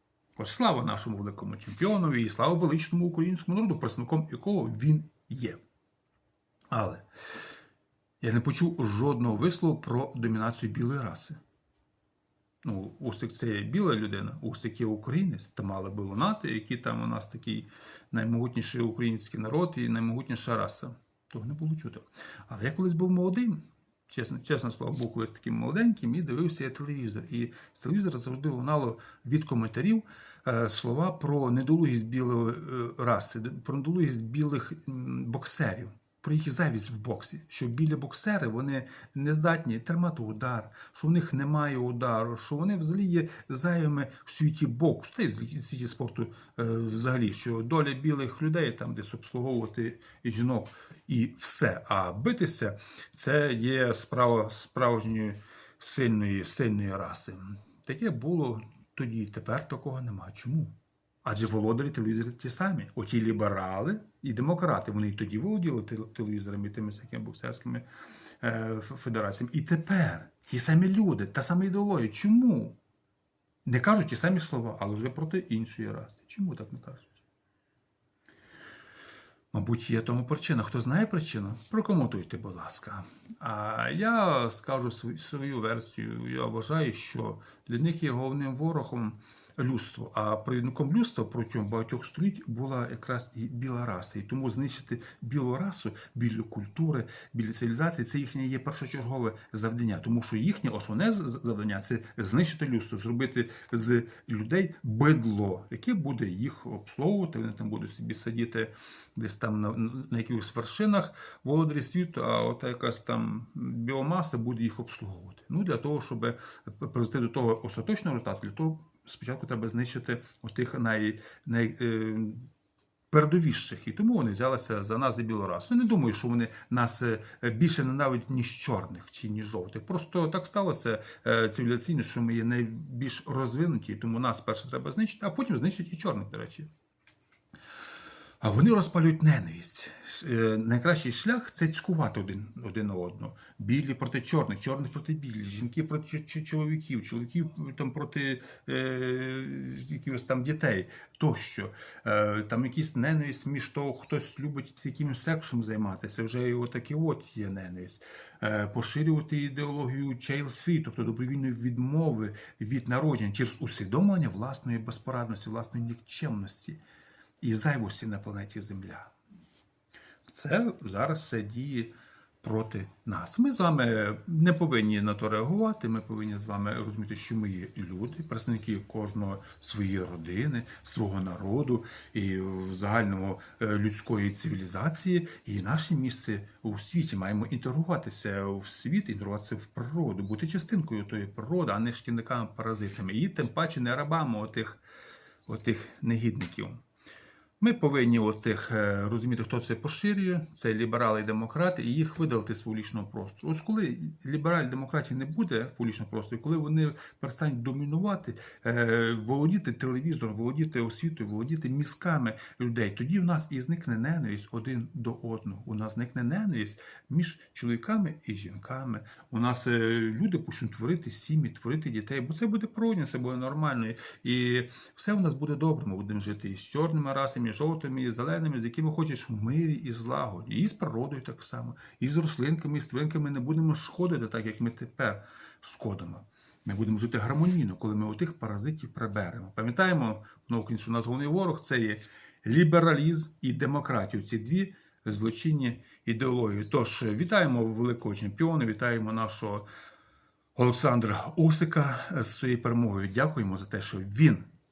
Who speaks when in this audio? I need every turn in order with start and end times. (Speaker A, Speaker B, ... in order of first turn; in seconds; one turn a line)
Speaker A: 0.4-5.6
Speaker A: 6.7-7.0
Speaker A: 8.2-11.4
Speaker A: 12.6-67.8
Speaker A: 68.4-72.8
Speaker A: 73.6-77.2
Speaker A: 79.5-122.5
Speaker A: 123.1-136.7
Speaker A: 138.4-166.8
Speaker A: 167.4-169.1
Speaker A: 170.3-194.8
Speaker A: 195.4-196.8
Speaker A: 197.6-249.7
Speaker A: 250.5-254.5